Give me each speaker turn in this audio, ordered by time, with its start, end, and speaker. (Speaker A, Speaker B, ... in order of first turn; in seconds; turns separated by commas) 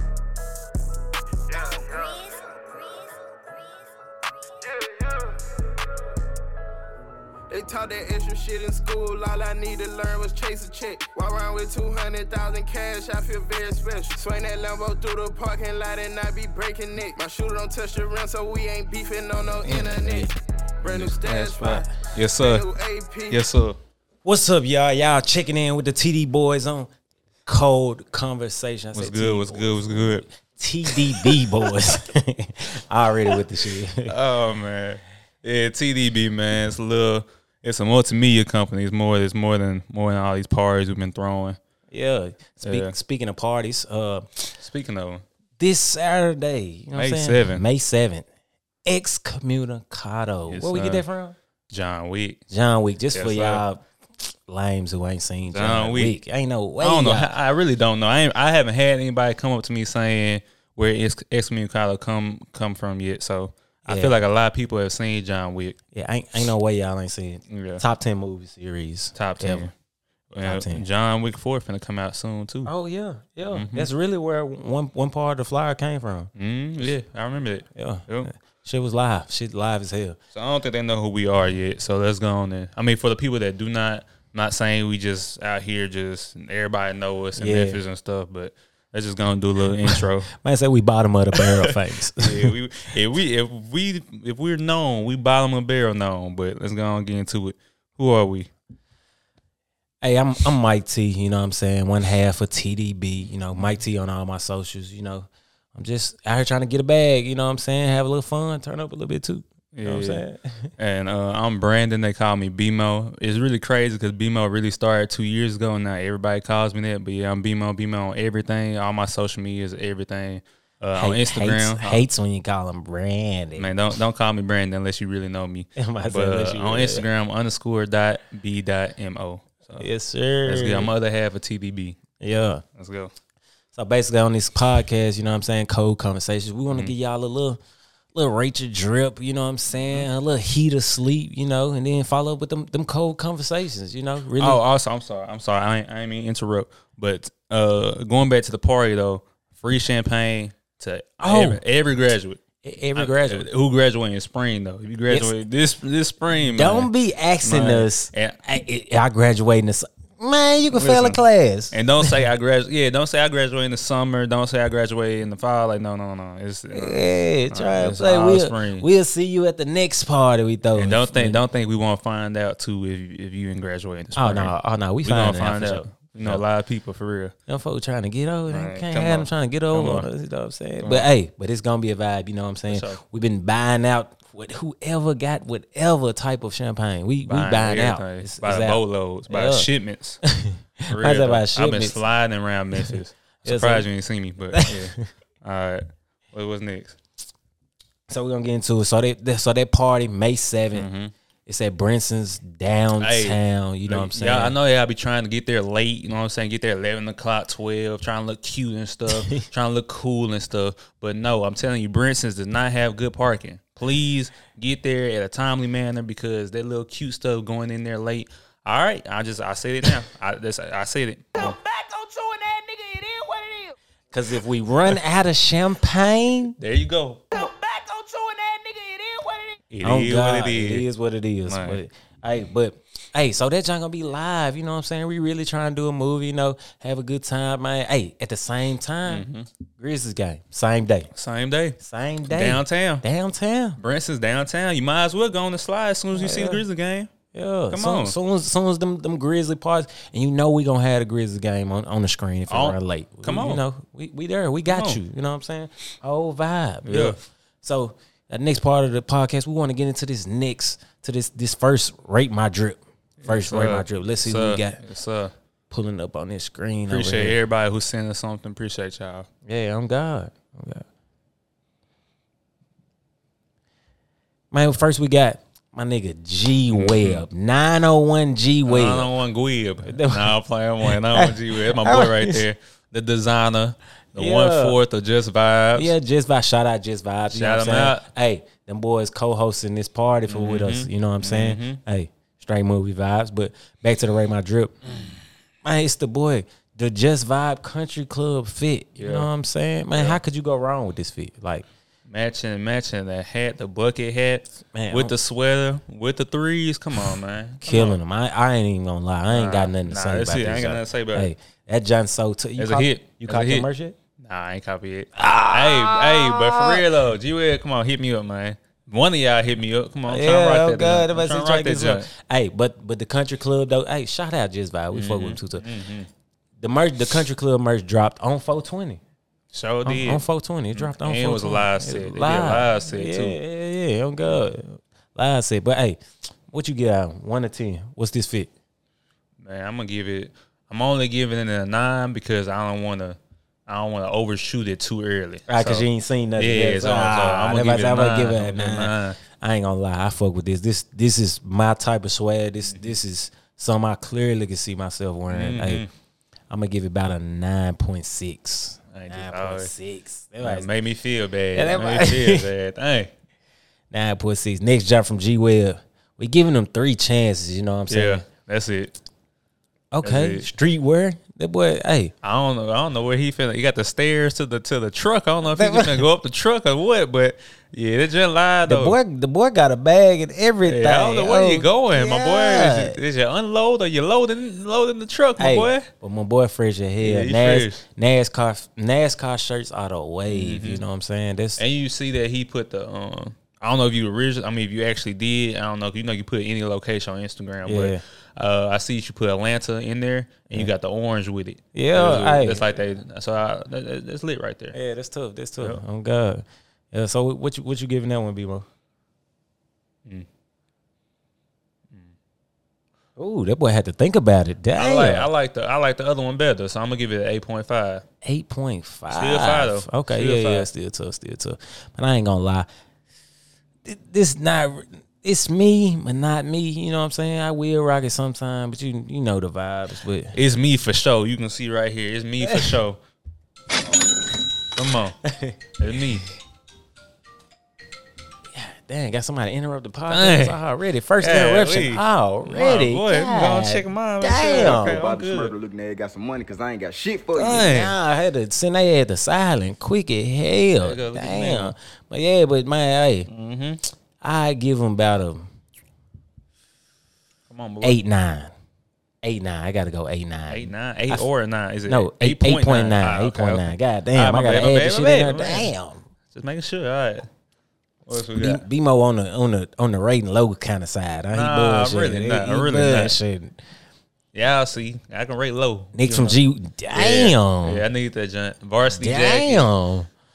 Speaker A: 1.5-2.4, Speaker B: 1.8-2.1, Speaker A: 4.6-5.5, Speaker A: 7.5-23.4, Speaker C: 19.5-20.3, Speaker D: 20.8-22.6, Speaker D: 23.3-23.8, Speaker C: 24.2-26.9, Speaker C: 27.4-34.1, Speaker D: 28.9-30.2, Speaker D: 30.9-31.4, Speaker D: 34.0-41.6, Speaker C: 41.9-44.5, Speaker D: 42.6-42.9, Speaker D: 44.6-45.2, Speaker C: 45.6-48.2, Speaker D: 46.9-47.6, Speaker C: 48.9-51.4, Speaker D: 50.5-51.0, Speaker D: 51.7-52.4, Speaker C: 52.5-53.8, Speaker D: 53.1-53.6, Speaker C: 54.5-57.3, Speaker D: 55.5-56.1, Speaker D: 56.8-65.8, Speaker C: 63.9-64.2, Speaker C: 65.9-69.7, Speaker D: 67.5-67.8, Speaker D: 69.1-69.7, Speaker D: 70.3-72.7, Speaker C: 70.4-70.8, Speaker C: 72.7-76.3, Speaker D: 73.5-73.9, Speaker D: 76.4-78.3, Speaker C: 77.7-80.2, Speaker D: 80.3-90.3, Speaker C: 87.3-87.8, Speaker C: 89.8-92.5, Speaker D: 91.3-98.5, Speaker C: 100.0-110.7, Speaker D: 109.7-110.2, Speaker D: 110.8-122.0, Speaker C: 121.0-123.7, Speaker D: 123.6-129.8, Speaker C: 125.8-127.0, Speaker C: 129.8-130.9, Speaker D: 130.4-132.0, Speaker C: 132.2-132.6, Speaker D: 132.7-133.1, Speaker C: 133.7-137.6, Speaker C: 138.1-144.6, Speaker D: 144.4-152.4, Speaker C: 151.2-151.6, Speaker C: 152.6-153.5, Speaker D: 152.9-156.9, Speaker C: 155.1-155.4, Speaker C: 156.5-162.1, Speaker D: 157.4-158.4, Speaker D: 160.7-168.9, Speaker C: 166.7-171.4, Speaker D: 170.7-177.3, Speaker C: 174.2-176.4, Speaker C: 177.5-189.7, Speaker D: 178.5-180.1, Speaker D: 180.8-181.1, Speaker D: 182.7-183.0, Speaker D: 187.2-190.2, Speaker C: 190.2-192.0, Speaker D: 190.9-196.9, Speaker C: 193.4-193.8, Speaker C: 194.5-195.0, Speaker C: 198.1-200.9, Speaker D: 200.7-201.1, Speaker C: 201.4-204.6, Speaker D: 203.0-221.6, Speaker C: 209.1-209.4, Speaker B: 221.3-223.8, Speaker C: 224.1-226.6, Speaker D: 226.6-227.4, Speaker B: 227.3-229.6, Speaker D: 229.7-230.8, Speaker C: 229.8-241.1, Speaker D: 231.5-231.8, Speaker D: 239.1-239.5, Speaker D: 241.1-241.8, Speaker C: 241.8-243.8, Speaker D: 242.3-243.0, Speaker D: 243.8-247.1, Speaker C: 246.1-246.6, Speaker C: 247.3-264.8, Speaker D: 247.7-248.2, Speaker D: 252.5-253.6, Speaker D: 254.7-255.0, Speaker D: 256.8-257.2, Speaker D: 263.2-265.3, Speaker C: 265.7-267.4, Speaker D: 266.9-269.3, Speaker C: 269.4-270.8, Speaker C: 274.5-279.1, Speaker D: 276.7-277.2, Speaker D: 278.7-285.9, Speaker C: 279.8-282.4, Speaker C: 284.1-284.8, Speaker C: 285.7-294.8, Speaker D: 287.3-288.0, Speaker D: 290.3-291.8, Speaker C: 295.6-301.6, Speaker D: 299.0-299.3, Speaker D: 299.9-300.2, Speaker D: 302.1-308.0, Speaker C: 304.7-305.1, Speaker C: 307.6-313.9, Speaker D: 309.3-311.3, Speaker D: 312.6-322.1, Speaker C: 315.1-316.9, Speaker C: 320.1-325.6, Speaker D: 324.9-326.1, Speaker C: 326.6-329.0, Speaker D: 329.5-333.4, Speaker C: 329.8-338.5, Speaker D: 339.4-349.2, Speaker C: 345.5-355.8, Speaker D: 355.3-355.9, Speaker C: 356.5-360.7, Speaker D: 358.9-359.7, Speaker D: 360.4-363.1, Speaker C: 361.5-362.5, Speaker C: 363.9-368.2, Speaker D: 367.9-368.9, Speaker C: 369.9-372.1, Speaker D: 370.0-370.5, Speaker D: 372.2-379.0, Speaker C: 375.4-376.1, Speaker C: 378.6-383.0, Speaker D: 380.6-385.9, Speaker C: 385.4-391.6, Speaker D: 387.0-387.8, Speaker D: 390.3-390.8, Speaker D: 391.6-404.7, Speaker C: 397.6-398.0, Speaker C: 401.7-402.7, Speaker C: 404.7-408.6, Speaker C: 413.2-415.3, Speaker D: 414.7-418.0, Speaker C: 418.2-422.7, Speaker D: 419.1-420.7, Speaker C: 423.8-430.3, Speaker D: 430.3-433.0, Speaker C: 432.4-432.8, Speaker D: 434.7-435.2, Speaker C: 435.2-435.6, Speaker D: 435.8-436.2, Speaker C: 438.5-445.1, Speaker D: 440.1-440.6, Speaker D: 441.2-445.6, Speaker E: 444.6-447.6, Speaker D: 447.3-447.9, Speaker C: 447.4-453.3, Speaker D: 450.8-451.7, Speaker D: 453.3-453.8, Speaker C: 454.2-455.5, Speaker D: 457.5-458.0, Speaker C: 457.8-458.5, Speaker C: 459.2-461.2, Speaker D: 460.5-465.7, Speaker C: 461.9-466.0, Speaker D: 466.3-467.3, Speaker D: 468.1-468.6, Speaker C: 468.4-473.6, Speaker D: 471.3-473.2, Speaker D: 474.3-476.4, Speaker C: 475.9-477.8, Speaker D: 476.9-479.7, Speaker C: 478.9-480.1